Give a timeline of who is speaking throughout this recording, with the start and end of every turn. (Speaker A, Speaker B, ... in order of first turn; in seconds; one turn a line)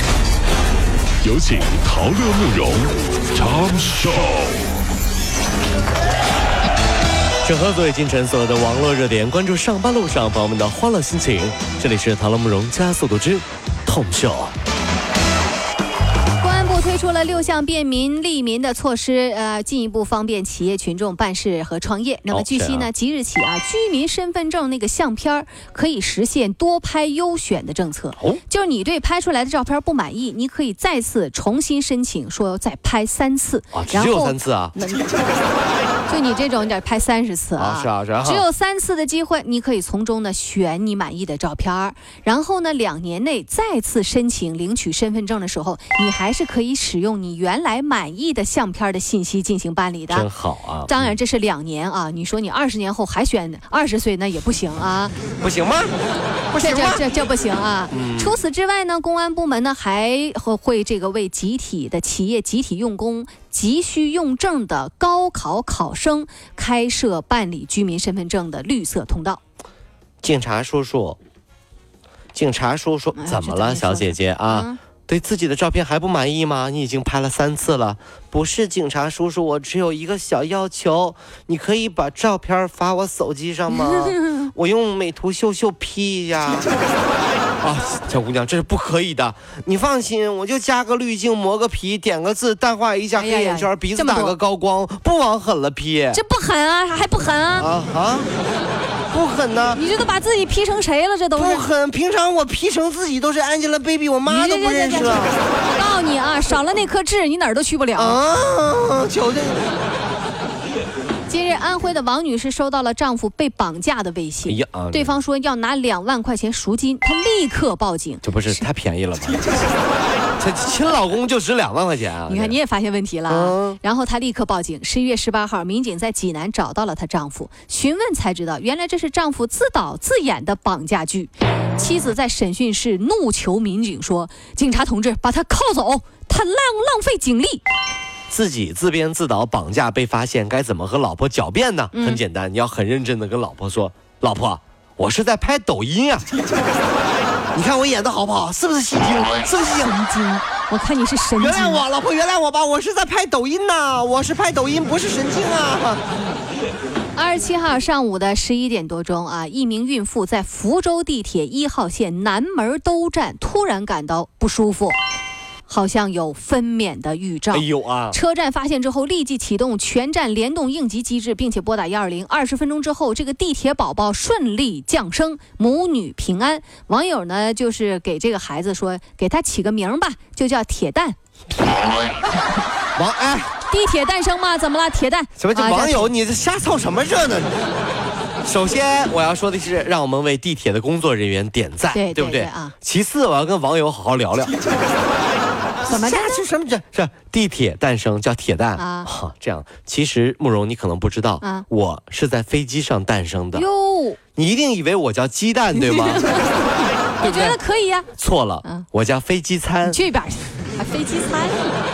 Speaker A: 1.2-4.6
Speaker B: 7.4-14.6
Speaker C: 16.4-35.1
Speaker B: 22.3-22.9
Speaker B: 33.7-34.8
Speaker C: 36.1-50.3
Speaker B: 37.6-38.5
Speaker B: 50.1-51.1
Speaker C: 50.9-55.1
Speaker B: 55.4-56.0
Speaker B: 56.5-57.0
Speaker C: 56.6-69.4
Speaker B: 57.9-58.4
Speaker B: 70.2-71.2
Speaker B: 72.3-86.7
Speaker C: 73.2-74.8
Speaker C: 83.7-84.1
Speaker B: 87.6-96.2
Speaker C: 93.1-94.4
Speaker C: 96.1-97.7
Speaker B: 97.6-98.3
Speaker B: 99.1-99.8
Speaker C: 99.7-101.7
Speaker B: 101.3-105.4
Speaker C: 104.2-108.2
Speaker B: 108.0-109.7
Speaker C: 111.3-118.7
Speaker B: 114.5-115.2
Speaker B: 118.2-119.5
Speaker B: 120.4-122.6
Speaker C: 122.3-137.6
Speaker B: 123.3-123.8
Speaker B: 138.3-146.3
Speaker C: 141.9-142.2
Speaker B: 147.5-150.0
Speaker C: 149.6-151.8
Speaker B: 151.4-156.0
Speaker C: 156.1-156.4
Speaker C: 157.1-165.0
Speaker C: 165.7-181.2
Speaker B: 167.5-168.2
Speaker B: 183.0-183.5
Speaker C: 183.7-186.1
Speaker B: 185.4-187.5
Speaker B: 188.4-194.6
Speaker C: 191.9-192.8
Speaker C: 195.8-196.4
Speaker B: 195.9-203.7
Speaker C: 198.8-199.1
Speaker C: 203.5-204.2
Speaker B: 204.4-206.3
Speaker C: 205.8-208.1
Speaker B: 207.2-207.6
Speaker B: 208.2-210.0
Speaker C: 209.8-211.8